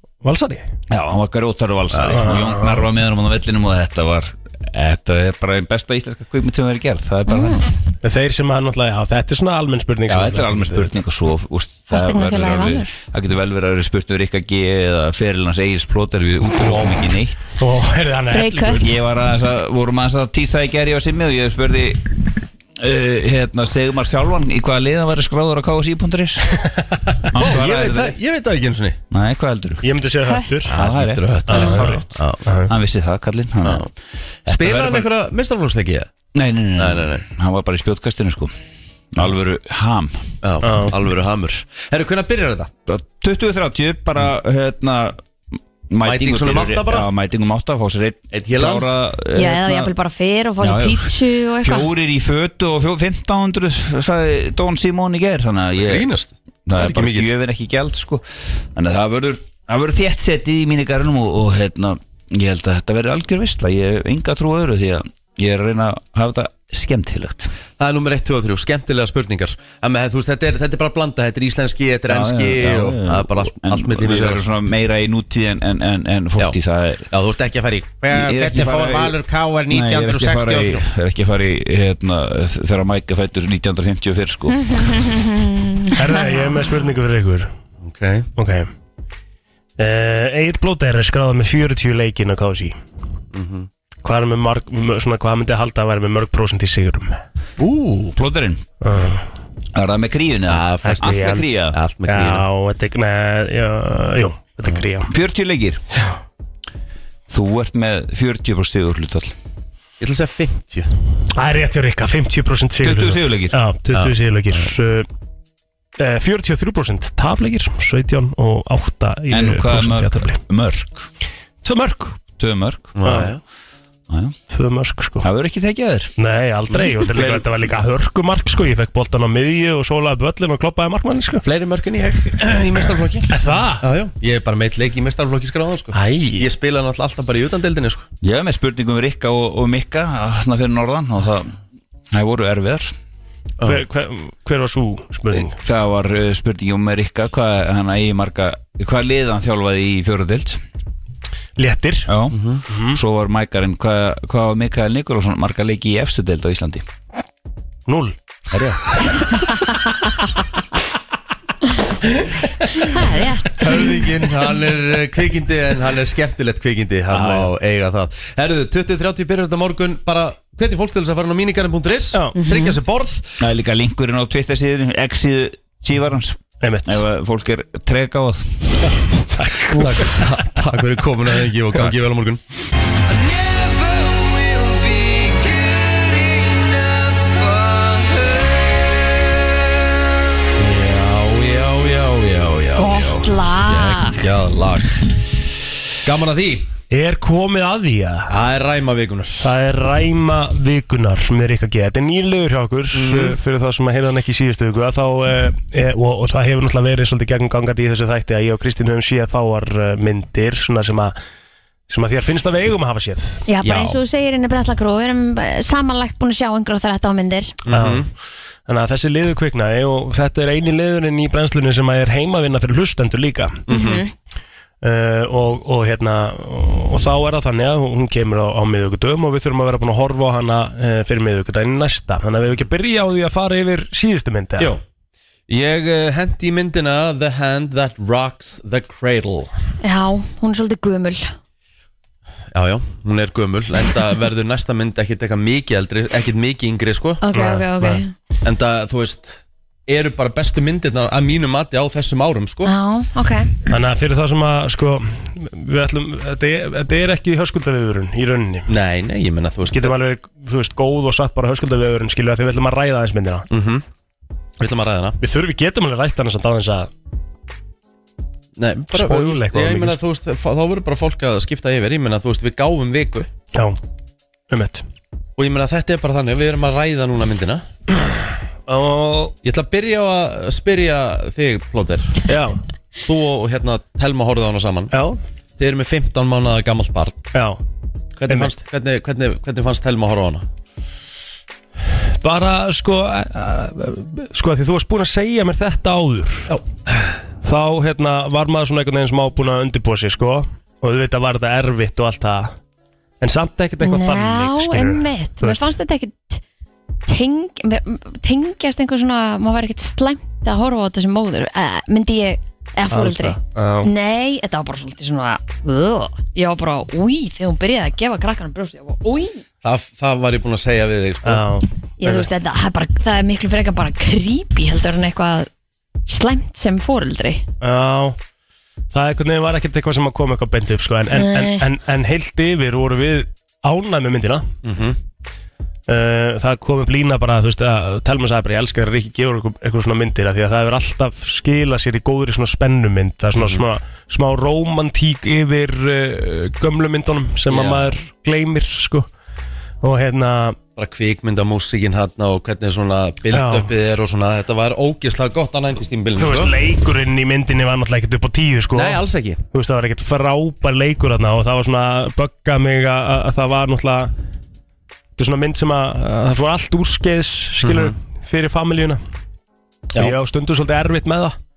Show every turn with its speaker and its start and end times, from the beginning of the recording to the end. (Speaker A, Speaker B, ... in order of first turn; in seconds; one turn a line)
Speaker A: 0.2-0.6
Speaker B: 0.9-7.7
Speaker C: 1.9-2.4
Speaker A: 2.1-2.9
Speaker D: 7.3-7.6
Speaker A: 8.0-10.9
Speaker B: 10.1-17.4
Speaker D: 11.9-12.9
Speaker A: 17.6-18.9
Speaker D: 18.3-18.9
Speaker B: 18.8-26.6
Speaker A: 26.6-27.2
Speaker B: 27.2-28.2
Speaker C: 27.4-29.0
Speaker B: 29.1-29.9
Speaker A: 29.8-30.7
Speaker C: 30.7-32.4
Speaker B: 30.7-33.9
Speaker A: 31.5-32.7
Speaker B: 34.5-35.1
Speaker C: 34.5-36.1
Speaker B: 36.3-38.5
Speaker C: 36.8-37.2
Speaker B: 39.1-40.2
Speaker C: 40.4-42.7
Speaker A: 40.6-40.9
Speaker B: 42.9-45.2
Speaker B: 45.9-49.9
Speaker C: 46.0-47.1
Speaker C: 48.3-48.9
Speaker D: 49.4-51.9
Speaker B: 50.6-56.1
Speaker C: 55.8-57.3
Speaker B: 56.7-67.5
Speaker C: 67.8-74.4
Speaker B: 72.1-77.1
Speaker C: 77.1-80.8
Speaker B: 78.1-85.0
Speaker D: 84.8-86.5
Speaker A: 85.9-87.5
Speaker C: 87.8-88.3
Speaker A: 88.4-88.7
Speaker A: 89.8-92.8
Speaker C: 93.3-93.7
Speaker A: 94.0-97.2
Speaker C: 97.6-98.1
Speaker B: 98.1-98.6
Speaker A: 98.8-99.3
Speaker B: 99.7-101.8
Speaker C: 100.5-101.1
Speaker A: 100.8-101.5
Speaker C: 101.7-102.5
Speaker A: 102.1-105.1
Speaker B: 105.1-105.8
Speaker B: 107.3-109.3
Speaker C: 110.0-110.9
Speaker A: 111.3-115.1
Speaker B: 112.8-113.6
Speaker C: 113.9-114.7
Speaker A: 116.0-120.4
Speaker B: 119.3-121.1
Speaker A: 121.6-122.2
Speaker B: 122.4-122.9
Speaker C: 123.0-123.4
Speaker A: 123.0-123.3
Speaker B: 124.1-124.3
Speaker A: 124.5-125.3
Speaker B: 125.2-126.1
Speaker A: 126.2-131.4
Speaker C: 126.7-127.5
Speaker C: 131.4-138.1
Speaker A: 133.3-133.8
Speaker A: 135.9-136.5
Speaker B: 138.2-141.6
Speaker B: 142.1-142.9
Speaker A: 143.6-145.6
Speaker B: 145.3-150.6
Speaker A: 151.6-152.1
Speaker B: 152.1-156.8
Speaker C: 152.3-152.6
Speaker A: 152.7-153.0
Speaker A: 157.9-159.0
Speaker A: 162.1-163.0
Speaker D: 162.9-164.0
Speaker C: 163.6-173.4
Speaker A: 167.1-167.5
Speaker D: 172.4-172.8
Speaker B: 173.4-178.8
Speaker A: 176.6-177.0
Speaker A: 179.3-180.4
Speaker C: 179.7-182.4
Speaker C: 183.1-188.8
Speaker C: 190.6-195.1
Speaker D: 192.8-194.3
Speaker C: 196.0-196.7
Speaker A: 196.9-198.3
Speaker C: 198.3-199.5
Speaker A: 199.4-211.1
Speaker C: 202.9-203.4
Speaker A: 211.9-213.4
Speaker D: 213.5-217.6
Speaker C: 213.6-214.0
Speaker C: 217.6-218.1
Speaker A: 217.7-218.1
Speaker A: 218.7-223.6
Speaker C: 223.7-224.0
Speaker D: 223.7-224.1
Speaker A: 224.8-234.8
Speaker C: 235.5-239.5
Speaker D: 239.8-241.3
Speaker C: 242.5-247.2
Speaker D: 247.2-248.1
Speaker A: 247.3-248.0
Speaker C: 248.4-252.7
Speaker D: 252.6-253.5
Speaker A: 253.7-258.7
Speaker C: 258.7-260.0
Speaker A: 259.7-263.5
Speaker C: 263.5-263.9
Speaker C: 264.6-265.2
Speaker A: 265.2-266.9
Speaker C: 268.6-273.3
Speaker A: 268.9-270.0
Speaker A: 273.5-273.8
Speaker A: 274.5-274.8
Speaker C: 275.4-277.6
Speaker A: 278.7-279.4
Speaker C: 279.4-282.3
Speaker A: 282.3-282.6
Speaker C: 283.0-284.9
Speaker A: 284.9-285.2
Speaker C: 285.6-287.2
Speaker A: 287.3-287.6
Speaker C: 288.2-290.5
Speaker A: 292.1-296.5
Speaker A: 297.4-302.6
Speaker A: 303.2-305.6
Speaker D: 303.8-306.4
Speaker D: 307.1-319.4
Speaker A: 312.9-313.9
Speaker C: 319.6-321.5
Speaker A: 321.2-322.3
Speaker D: 322.0-325.5
Speaker D: 326.1-327.5
Speaker A: 327.6-328.2
Speaker A: 328.9-334.5
Speaker D: 331.1-331.6
Speaker C: 334.6-335.0
Speaker A: 335.9-349.1
Speaker C: 343.4-343.6
Speaker C: 347.5-347.9
Speaker A: 349.8-350.6
Speaker C: 350.8-356.5
Speaker A: 353.3-353.7
Speaker A: 356.2-364.1
Speaker C: 358.7-359.4
Speaker A: 365.2-369.0
Speaker C: 367.6-367.9
Speaker A: 369.9-371.4